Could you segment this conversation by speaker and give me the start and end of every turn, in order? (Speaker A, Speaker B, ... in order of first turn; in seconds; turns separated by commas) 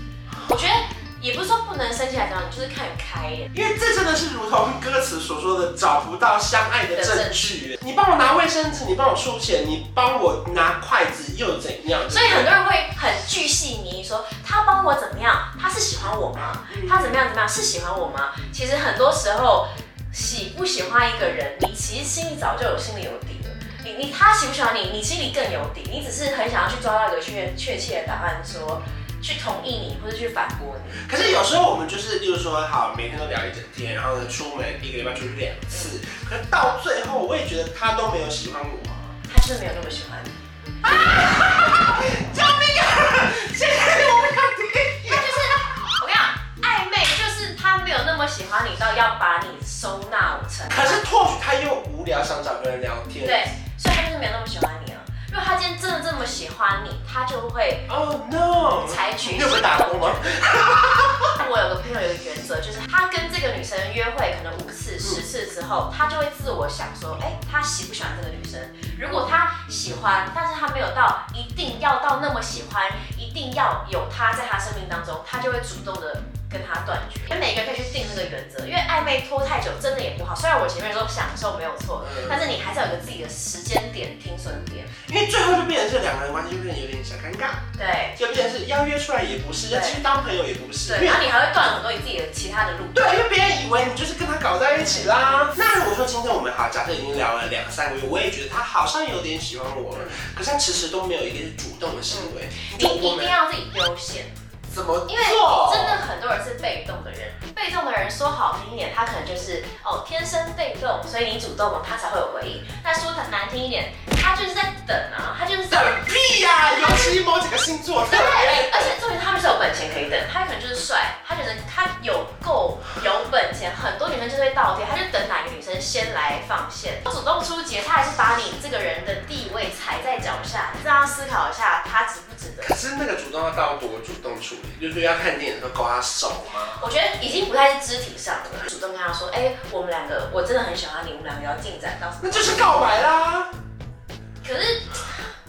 Speaker A: 0.5-3.5, Speaker B: 3.5-12.5, Speaker A: 6.9-7.6, Speaker A: 12.1-31.1, Speaker B: 16.7-17.2, Speaker B: 31.1-39.2, Speaker A: 39.3-40.3, Speaker B: 40.8-45.7, Speaker A: 45.0-51.1, Speaker B: 50.7-53.5, Speaker A: 53.2-57.9, Speaker B: 57.9-61.4, Speaker A: 58.8-60.6, Speaker A: 61.2-84.9, Speaker B: 82.0-82.4, Speaker B: 85.0-87.6, Speaker A: 87.8-88.2, Speaker B: 88.2-91.3, Speaker A: 89.7-90.0, Speaker A: 90.8-93.2, Speaker B: 92.9-103.4, Speaker A: 94.6-95.5, Speaker A: 99.9-100.2, Speaker A: 102.1-104.3, Speaker B: 104.7-106.0, Speaker A: 105.1-116.1, Speaker B: 115.7-119.0, Speaker A: 116.7-117.2, Speaker A: 118.0-132.8, Speaker B: 132.6-136.9, Speaker A: 136.8-143.0, Speaker B: 142.2-143.5, Speaker A: 144.4-145.2